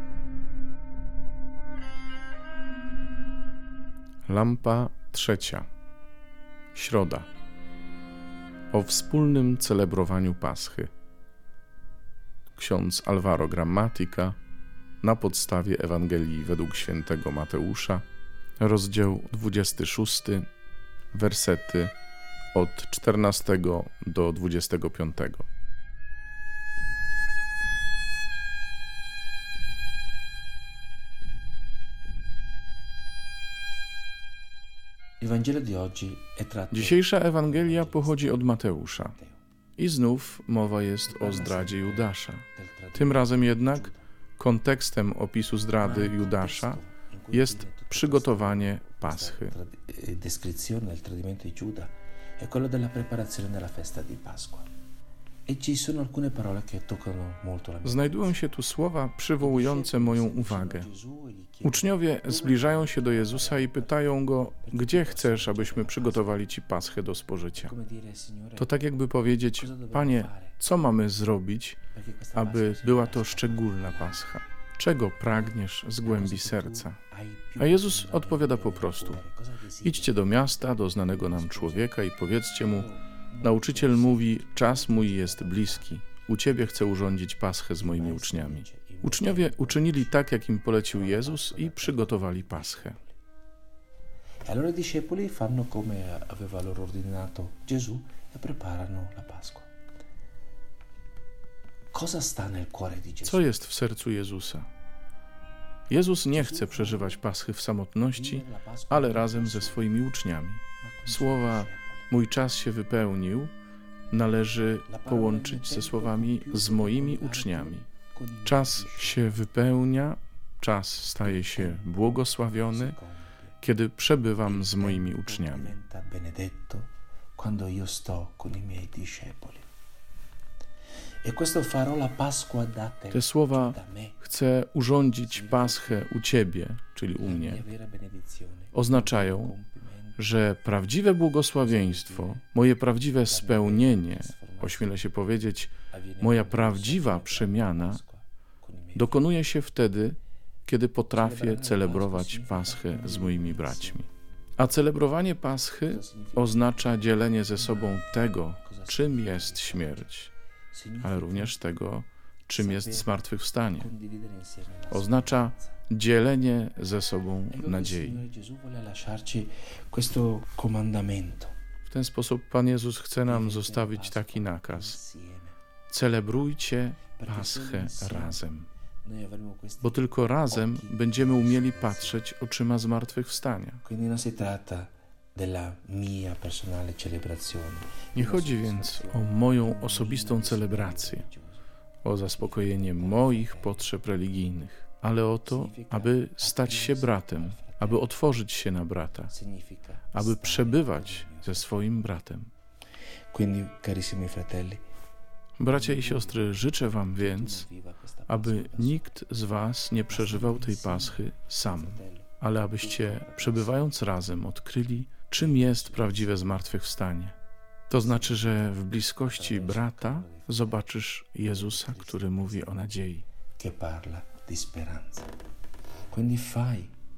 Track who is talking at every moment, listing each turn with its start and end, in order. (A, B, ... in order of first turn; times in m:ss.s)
0:04.2-0:05.7 A
0:06.7-0:07.3 A
0:08.7-0:10.9 A
0:12.6-0:14.4 A
0:15.0-0:18.0 A
0:18.6-0:20.5 A
0:21.1-0:21.9 A
0:22.5-0:25.5 A
0:35.2-0:39.4 B
0:36.7-0:39.2 A
0:39.8-0:46.8 A
0:41.1-0:44.0 B
0:45.8-0:54.7 B
0:47.3-0:49.5 A
0:55.4-0:58.4 B
0:57.8-1:00.9 A
0:59.4-1:06.4 B
1:01.6-1:07.7 A
1:07.6-1:08.8 B
1:08.6-1:11.8 A
1:09.6-1:10.6 B
1:11.9-1:14.3 B
1:12.3-1:17.0 A
1:15.3-1:20.3 B
1:17.6-1:19.2 A
1:19.8-1:22.9 A
1:21.0-1:22.0 B
1:22.5-1:26.0 B
1:23.4-1:33.0 A
1:27.7-1:30.2 B
1:30.9-1:33.2 B
1:34.4-1:39.7 B
1:41.9-1:43.5 B
1:43.2-1:44.7 A
1:45.9-1:53.5 A
1:46.3-1:47.2 B
1:48.1-1:49.9 B
1:50.8-1:52.1 B
1:54.1-1:57.9 A
1:54.9-1:59.3 B
1:58.4-2:03.0 A
2:01.2-2:01.9 B
2:02.7-2:03.5 B
2:03.6-2:05.7 A
2:04.4-2:09.6 B
2:11.2-2:14.2 B
2:13.1-2:17.6 A
2:15.2-2:16.1 B
2:17.2-2:20.2 B
2:18.7-2:19.5 A
2:20.2-2:28.0 A
2:21.6-2:22.4 B
2:23.2-2:25.1 B
2:25.9-2:29.4 B
2:28.9-2:40.3 A
2:31.1-2:34.1 B
2:35.8-2:40.1 B
2:40.7-2:41.6 B
2:41.0-2:43.9 A
2:42.5-2:43.2 B
2:43.7-2:45.8 B
2:44.9-2:48.2 A
2:47.5-2:51.5 B
2:51.9-2:55.0 A
2:53.2-2:55.6 B
2:55.9-2:58.7 A
2:57.2-2:58.4 B
2:59.0-3:02.2 B
2:59.8-3:03.8 A
3:03.8-3:11.6 B
3:08.1-3:11.2 A
3:12.0-3:19.3 A
3:12.2-3:13.9 B
3:15.4-3:18.1 B
3:19.3-3:21.8 B
3:20.1-3:22.5 A
3:23.3-3:24.8 B
3:25.6-3:27.7 A
3:25.7-3:26.5 B
3:27.1-3:29.1 B
3:28.3-3:37.4 A
3:30.1-3:33.8 B
3:35.4-3:36.6 B
3:37.9-3:43.2 A
3:37.9-3:40.8 B
3:41.4-3:43.0 B
3:43.6-3:45.3 B
3:46.1-3:46.9 B